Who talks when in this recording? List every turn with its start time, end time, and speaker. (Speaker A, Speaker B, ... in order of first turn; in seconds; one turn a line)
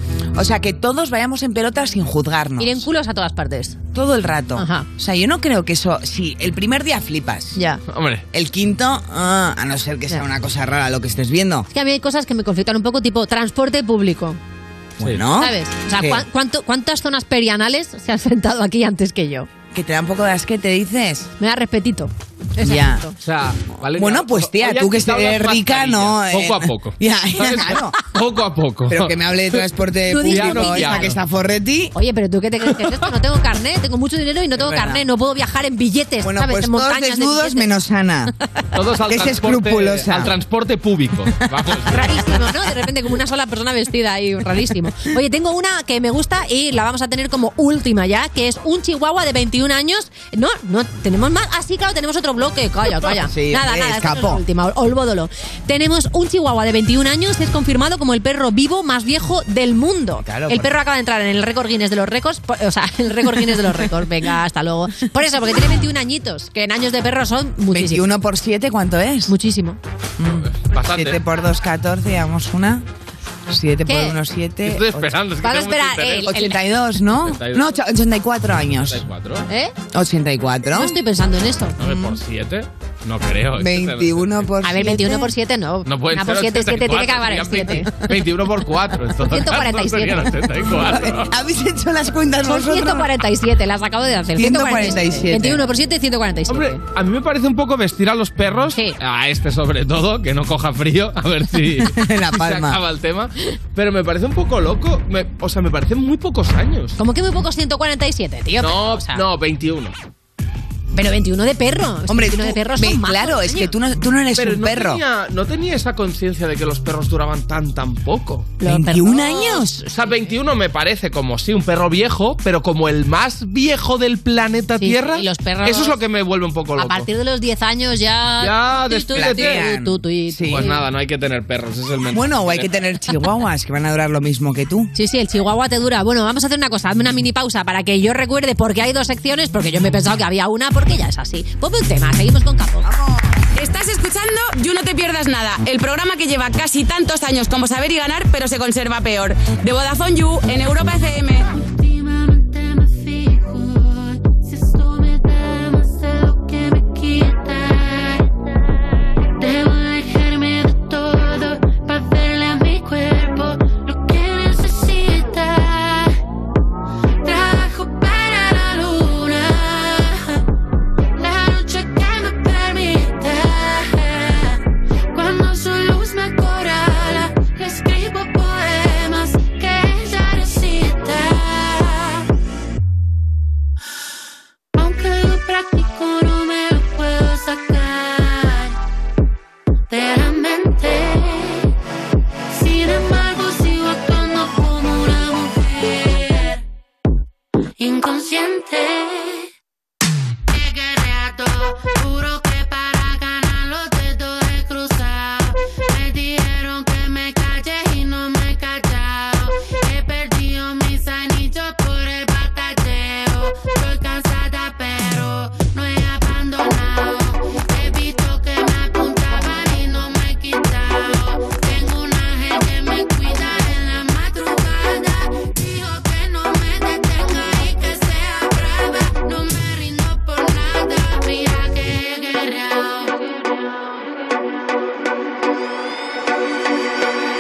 Speaker A: 0.3-2.9
Speaker B: 2.6-3.8
Speaker A: 3.9-7.6
Speaker B: 4.6-4.9
Speaker B: 7.5-7.8
Speaker C: 7.9-8.2
Speaker A: 8.3-11.7
Speaker B: 11.7-14.4
Speaker A: 15.0-16.2
Speaker B: 15.4-19.5
Speaker A: 19.7-21.3
Speaker B: 21.4-23.1
Speaker A: 22.6-23.1
Speaker C: 23.2-29.6
Speaker A: 23.9-28.1
Speaker A: 28.9-31.9
Speaker B: 30.1-31.2
Speaker C: 30.2-31.2
Speaker B: 31.9-37.7
Speaker C: 32.8-33.0
Speaker A: 34.6-35.0
Speaker A: 36.2-38.3
Speaker C: 38.8-42.4
Speaker A: 39.1-40.3
Speaker B: 41.9-68.0
Speaker A: 53.2-54.4
Speaker A: 60.2-60.7
Speaker A: 67.7-69.3
Speaker B: 69.3-69.8
Speaker A: 70.2-72.8
Speaker C: 70.4-71.2
Speaker A: 73.5-75.1
Speaker B: 73.9-74.2
Speaker C: 74.6-76.4
Speaker B: 75.4-76.6
Speaker A: 76.3-79.1
Speaker C: 77.2-77.8
Speaker C: 78.8-79.5
Speaker B: 79.5-79.7
Speaker A: 79.9-81.0
Speaker B: 80.7-81.8
Speaker C: 81.8-84.5
Speaker A: 81.9-82.1
Speaker A: 83.6-85.3
Speaker B: 84.6-88.0
Speaker C: 85.8-91.3
Speaker B: 89.3-90.3
Speaker A: 90.8-93.1
Speaker B: 92.5-96.8
Speaker A: 94.3-95.7
Speaker C: 96.5-107.0
Speaker A: 101.8-102.8
Speaker B: 107.0-109.2
Speaker C: 108.6-110.0
Speaker B: 110.9-113.7
Speaker A: 112.1-115.0
Speaker C: 114.4-118.6
Speaker B: 118.6-119.7
Speaker A: 118.6-119.9
Speaker C: 119.9-127.1
Speaker B: 124.8-126.0
Speaker B: 126.8-130.8
Speaker C: 128.4-129.7
Speaker A: 129.1-130.8
Speaker C: 130.5-132.7
Speaker A: 132.1-134.9
Speaker B: 134.9-142.9
Speaker A: 142.8-143.3
Speaker D: 143.6-151.5
Speaker E: 151.8-158.3
Speaker E: 159.4-166.1
Speaker E: 167.2-170.4
Speaker E: 171.2-174.6
Speaker E: 175.1-182.2
Speaker E: 184.8-188.8
Speaker E: 189.9-191.7
Speaker E: 192.5-196.6
Speaker E: 197.8-199.5
Speaker E: 200.5-233.1